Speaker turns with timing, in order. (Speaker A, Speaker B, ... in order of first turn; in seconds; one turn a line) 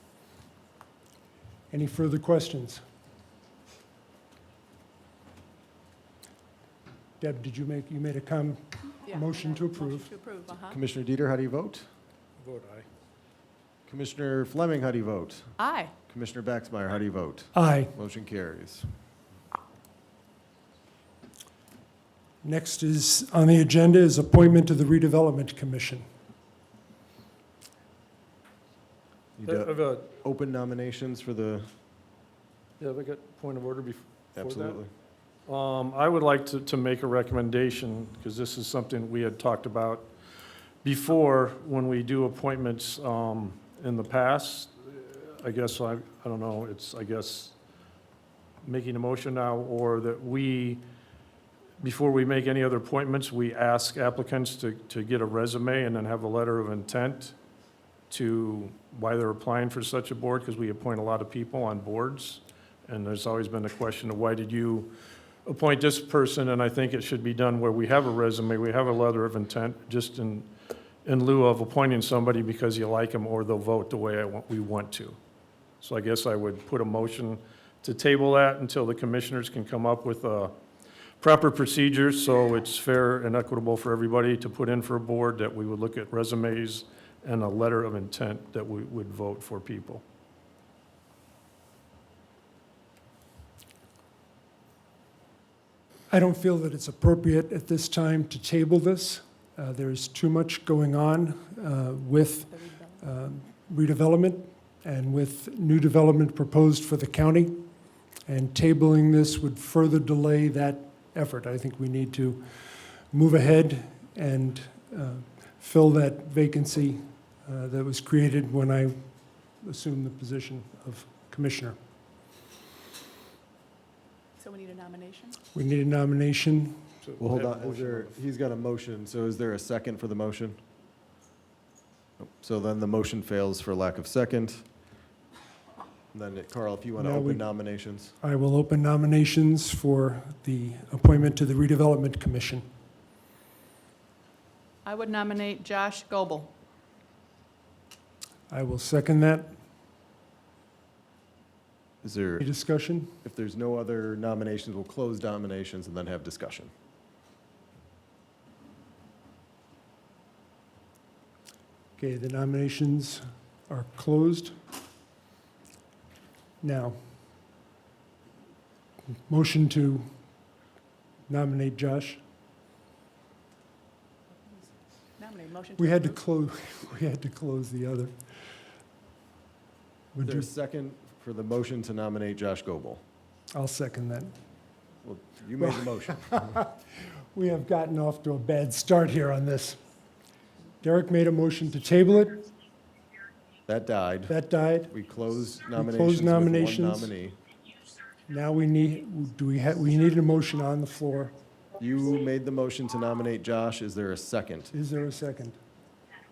Speaker A: 1.7-2.8
Speaker A: 7.2-10.1
Speaker B: 9.1-10.8
Speaker C: 10.7-11.9
Speaker D: 12.4-12.9
Speaker C: 13.9-15.5
Speaker B: 15.6-15.9
Speaker C: 16.1-18.9
Speaker A: 17.5-17.9
Speaker A: 22.4-26.1
Speaker C: 29.4-31.7
Speaker D: 29.4-30.1
Speaker D: 32.8-34.8
Speaker C: 34.4-34.9
Speaker D: 35.5-40.1
Speaker D: 40.8-47.5
Speaker D: 48.6-50.8
Speaker D: 51.8-57.4
Speaker D: 58.1-64.9
Speaker D: 65.5-70.5
Speaker D: 71.0-75.2
Speaker D: 75.8-80.5
Speaker D: 81.2-90.0
Speaker A: 96.1-107.7
Speaker B: 102.5-103.0
Speaker A: 108.3-119.0
Speaker A: 119.6-121.8
Speaker B: 124.4-125.4
Speaker A: 125.5-126.8
Speaker D: 127.0-128.2
Speaker C: 127.2-130.6
Speaker C: 132.2-134.6
Speaker C: 136.1-138.2
Speaker A: 137.0-137.4
Speaker A: 138.2-142.7
Speaker B: 144.8-146.5
Speaker A: 148.5-149.5
Speaker C: 152.0-152.4
Speaker A: 152.4-153.1
Speaker C: 153.2-156.7
Speaker A: 162.0-164.6
Speaker A: 166.6-167.0
Speaker A: 169.3-170.1
Speaker A: 171.3-172.2
Speaker B: 174.4-176.2
Speaker A: 175.8-178.1
Speaker A: 180.1-180.5
Speaker C: 180.2-183.0
Speaker A: 183.6-184.3
Speaker C: 185.0-186.5
Speaker A: 185.6-186.8
Speaker A: 187.3-189.8
Speaker A: 190.8-192.5
Speaker C: 193.7-194.4
Speaker A: 194.3-194.9
Speaker C: 194.9-197.4
Speaker A: 195.7-197.1
Speaker A: 198.3-201.3
Speaker C: 201.8-204.7
Speaker A: 204.7-205.6